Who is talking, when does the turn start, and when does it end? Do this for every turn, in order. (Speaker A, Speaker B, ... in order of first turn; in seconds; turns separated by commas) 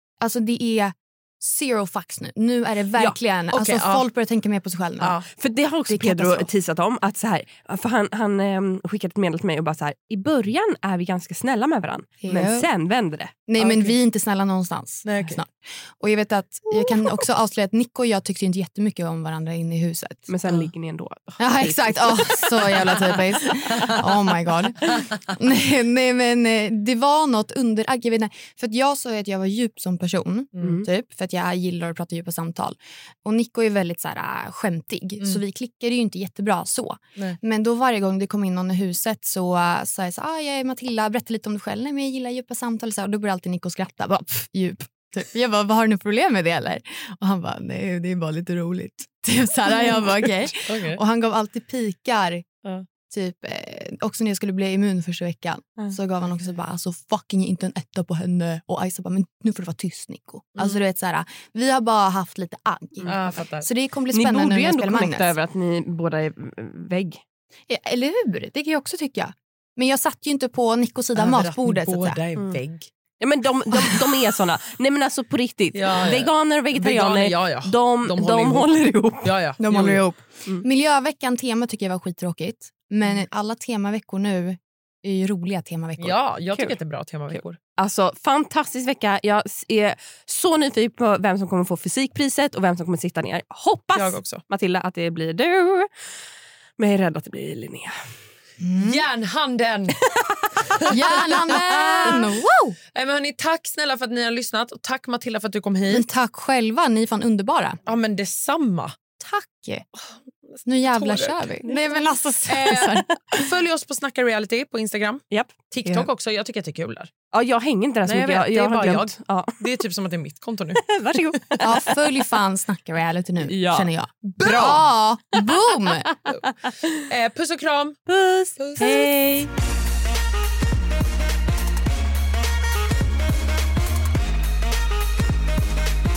Speaker A: 0.2-5.2, Speaker B: 3.5-4.1, Speaker B: 5.0-5.3, Speaker C: 5.4-13.4, Speaker A: 5.9-6.5, Speaker A: 12.2-12.7, Speaker A: 13.5-20.3, Speaker B: 13.6-14.0, Speaker B: 15.1-15.4, Speaker C: 20.3-23.2, Speaker A: 21.4-52.5, Speaker B: 30.6-30.8, Speaker B: 49.8-51.0, Speaker A: 53.1-65.3, Speaker B: 63.1-63.7, Speaker C: 64.1-67.2, Speaker A: 67.7-72.2, Speaker B: 71.2-72.9, Speaker C: 73.2-79.3, Speaker B: 75.7-80.0, Speaker A: 79.6-86.2, Speaker B: 86.0-87.6, Speaker C: 87.3-95.9, Speaker B: 94.0-94.4, Speaker C: 96.8-98.0, Speaker A: 98.6-99.0, Speaker B: 98.8-100.0, Speaker C: 100.1-102.2, Speaker B: 100.7-101.5, Speaker A: 100.9-102.8, Speaker B: 102.9-106.1, Speaker A: 105.9-107.8, Speaker B: 107.9-109.0, Speaker A: 109.2-109.8, Speaker B: 110.5-111.6, Speaker A: 110.7-113.5, Speaker B: 112.5-117.1, Speaker C: 117.3-119.6, Speaker B: 118.1-121.6, Speaker C: 120.8-121.9, Speaker A: 121.6-126.1, Speaker C: 123.4-123.9, Speaker B: 124.2-124.9, Speaker C: 126.5-127.0, Speaker B: 127.0-128.0, Speaker C: 128.1-129.5, Speaker B: 128.6-129.1